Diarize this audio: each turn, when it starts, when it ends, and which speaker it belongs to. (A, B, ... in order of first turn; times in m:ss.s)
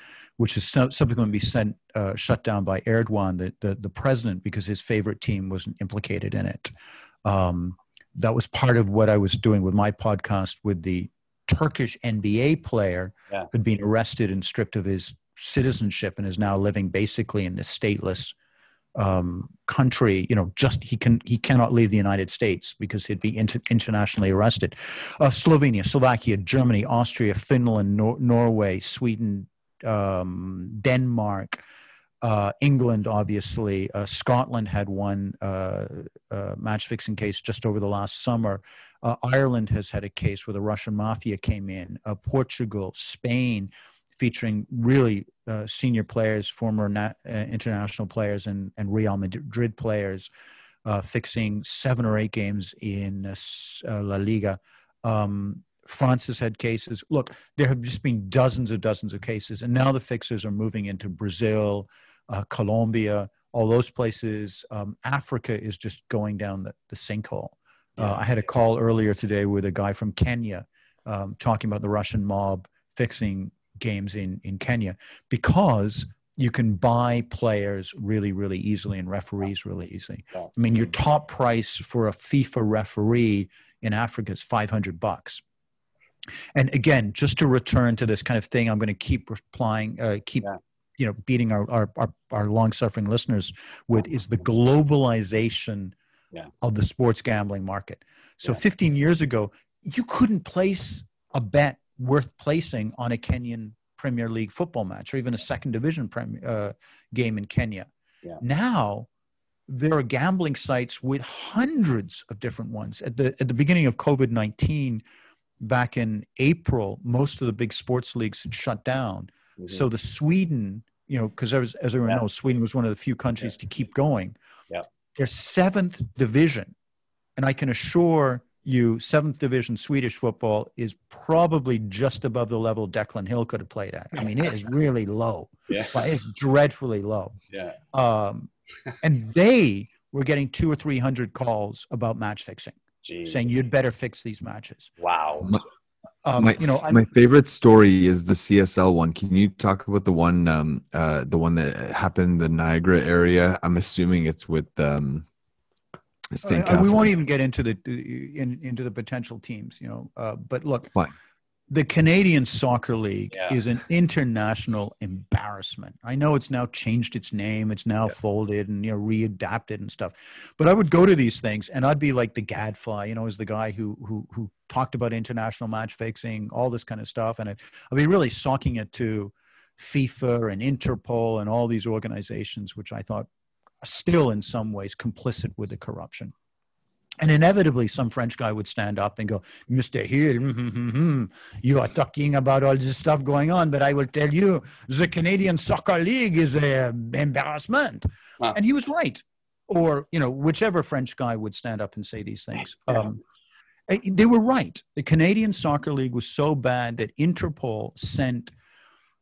0:00.4-0:06.7 A
0:07.2-0:18.4 A
0:19.0-0:31.6 A
0:32.2-0:50.3 A
0:50.8-1:25.4 A
1:26.6-1:36.0 A
1:36.6-1:49.1 A
1:49.7-1:55.0 A
1:55.6-2:04.4 A
1:59.6-1:59.9 B
2:05.2-2:06.8 A
2:07.4-2:17.4 A
2:15.7-2:15.9 B
2:17.5-2:17.8 B
2:17.9-2:18.5 A
2:19.0-2:24.9 A
2:23.0-2:23.4 B
2:25.0-2:25.6 B
2:26.2-2:27.0 A
2:26.4-2:35.3 C
2:36.4-2:37.1 C
2:36.4-2:41.0 A
2:41.7-3:03.3 A
2:43.3-2:43.6 B
3:03.8-3:06.3 A
3:07.2-3:23.2 A
3:23.9-3:28.5 A